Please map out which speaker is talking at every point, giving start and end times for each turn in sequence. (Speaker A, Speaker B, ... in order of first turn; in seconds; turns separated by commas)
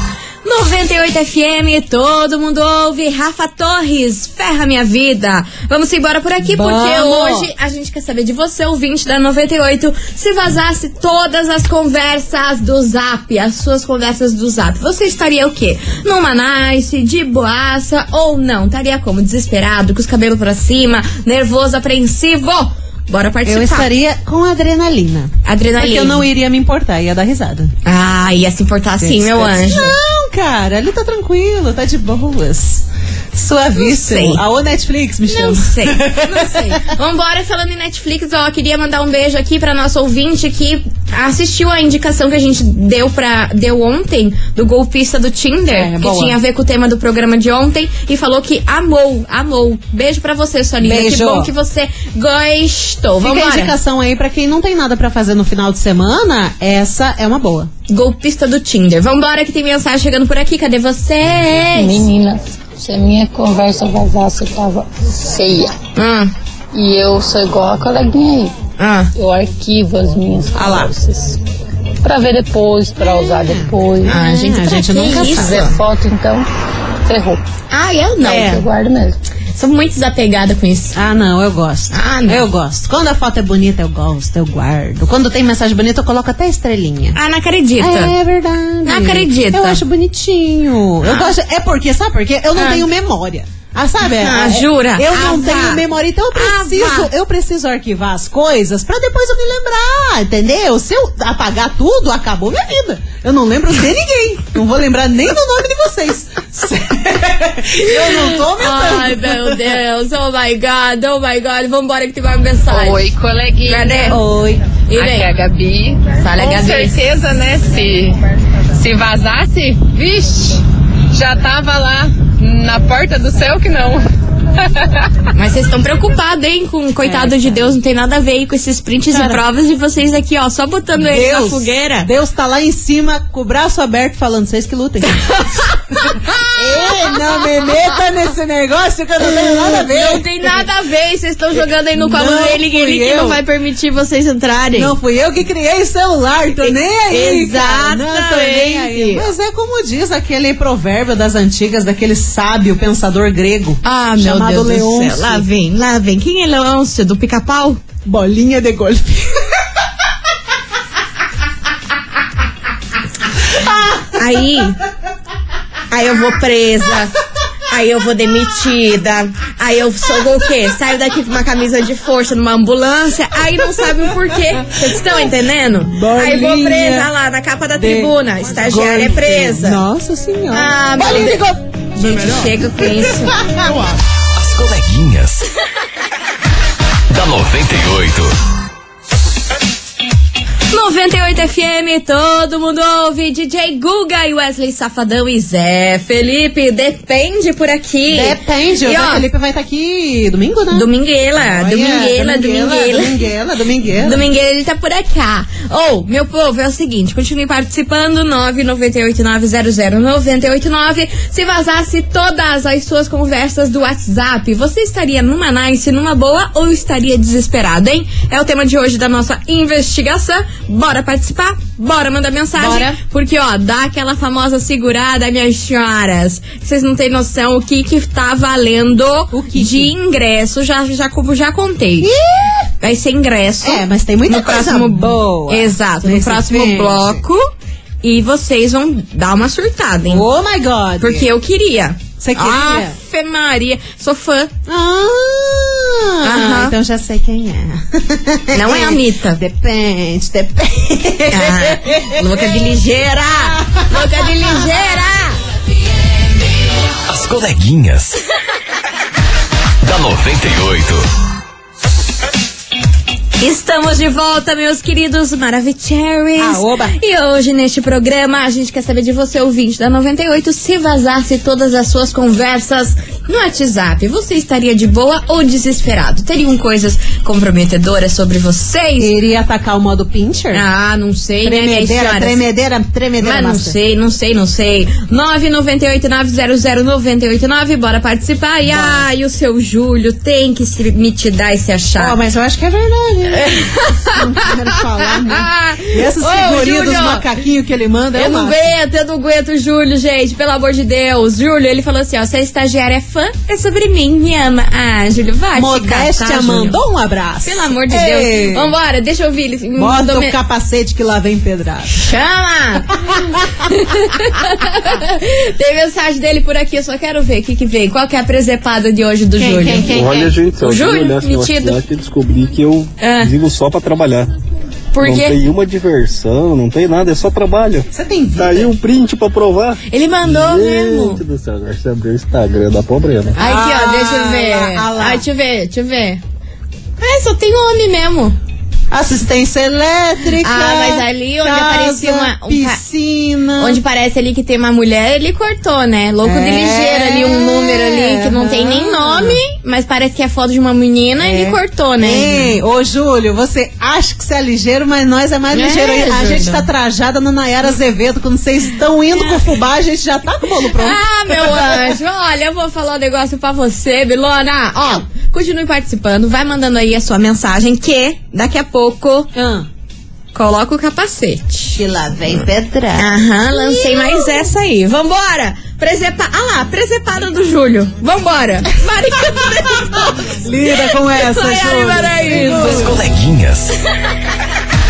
Speaker A: 0.4-23.9, Speaker B: 6.4-7.5, Speaker B: 23.4-27.7, Speaker A: 25.4-26.3, Speaker A: 27.8-29.9, Speaker B: 29.0-36.8, Speaker A: 33.8-34.4, Speaker A: 35.3-53.7, Speaker B: 45.7-46.4, Speaker B: 50.8-51.5, Speaker B: 53.2-57.7, Speaker A: 57.9-62.1, Speaker C: 61.7-65.7, Speaker A: 66.0-66.3, Speaker C: 66.7-68.5, Speaker A: 68.8-69.1, Speaker C: 69.1-71.4, Speaker B: 70.5-70.9, Speaker C: 72.0-74.1, Speaker B: 73.0-75.7, Speaker A: 74.0-75.8, Speaker C: 75.2-76.5, Speaker C: 77.0-77.4, Speaker A: 77.7-78.6, Speaker B: 78.2-78.6, Speaker C: 78.4-79.2, Speaker A: 79.5-81.0, Speaker B: 80.9-87.2, Speaker A: 81.9-82.5, Speaker A: 87.1-88.1, Speaker B: 87.8-109.8, Speaker A: 88.8-89.8, Speaker A: 91.0-91.3, Speaker A: 92.5-92.8, Speaker A: 94.0-97.1, Speaker A: 107.8-113.1, Speaker D: 112.7-114.1, Speaker A: 113.6-114.2, Speaker B: 114.0-114.6, Speaker A: 114.9-115.3, Speaker D: 115.2-116.0, Speaker A: 116.2-117.0, Speaker D: 117.3-118.1, Speaker D: 118.8-119.8, Speaker D: 122.5-123.9, Speaker A: 125.3-132.1, Speaker B: 127.0-127.7, Speaker B: 129.1-129.4, Speaker B: 130.9-140.6, Speaker A: 135.9-137.8, Speaker A: 139.2-144.9, Speaker B: 141.9-143.4, Speaker B: 144.7-155.4, Speaker A: 146.6-149.3, Speaker A: 153.8-157.8, Speaker B: 158.0-159.4, Speaker B: 163.5-164.1, Speaker A: 164.2-164.8, Speaker A: 165.9-167.1, Speaker A: 167.7-179.8, Speaker B: 173.6-177.1, Speaker B: 177.8-183.9, Speaker A: 180.5-181.4, Speaker A: 181.9-183.4, Speaker E: 184.3-185.4, Speaker E: 187.1-188.3, Speaker A: 190.7-199.2, Speaker B: 198.1-204.2, Speaker A: 200.7-203.2, Speaker A: 204.0-232.1, Speaker B: 222.6-223.0, Speaker B: 229.3-229.9, Speaker B: 232.0-232.7, Speaker A: 232.8-237.5, Speaker B: 233.6-237.2, Speaker A: 238.0-240.3, Speaker B: 240.1-241.3, Speaker A: 241.0-244.5, Speaker B: 242.2-242.9, Speaker B: 244.7-254.7, Speaker A: 246.2-246.7, Speaker A: 248.5-249.4, Speaker A: 251.3-255.4, Speaker E: 257.1-258.1, Speaker E: 259.8-261.1, Speaker A: 263.4-279.1, Speaker B: 266.4-266.9, Speaker B: 279.0-280.6, Speaker A: 280.5-282.4, Speaker B: 281.4-283.7, Speaker A: 283.2-292.2, Speaker B: 288.6-289.1, Speaker B: 292.0-298.7, Speaker A: 293.3-297.3, Speaker A: 298.1-306.8, Speaker B: 305.5-308.7, Speaker A: 307.4-310.3, Speaker B: 309.8-312.0, Speaker A: 311.9-320.0, Speaker B: 313.0-313.7, Speaker B: 319.4-320.3, Speaker F: 319.9-324.3, Speaker A: 320.6-321.8, Speaker A: 323.0-323.3, Speaker A: 324.9-325.3, Speaker F: 325.0-333.4, Speaker B: 327.9-328.7, Speaker A: 329.9-331.2, Speaker B: 333.3-335.2, Speaker A: 333.4-336.2, Speaker A: 337.0-338.4, Speaker B: 338.9-343.8, Speaker A: 340.4-342.8, Speaker A: 343.6-352.5, Speaker B: 346.2-349.4, Speaker B: 351.2-362.0, Speaker A: 355.5-356.7, Speaker A: 360.7-369.3, Speaker B: 369.3-369.7, Speaker A: 370.3-371.8, Speaker B: 371.7-374.5, Speaker A: 372.9-382.9, Speaker B: 379.9-383.0, Speaker E: 382.5-383.7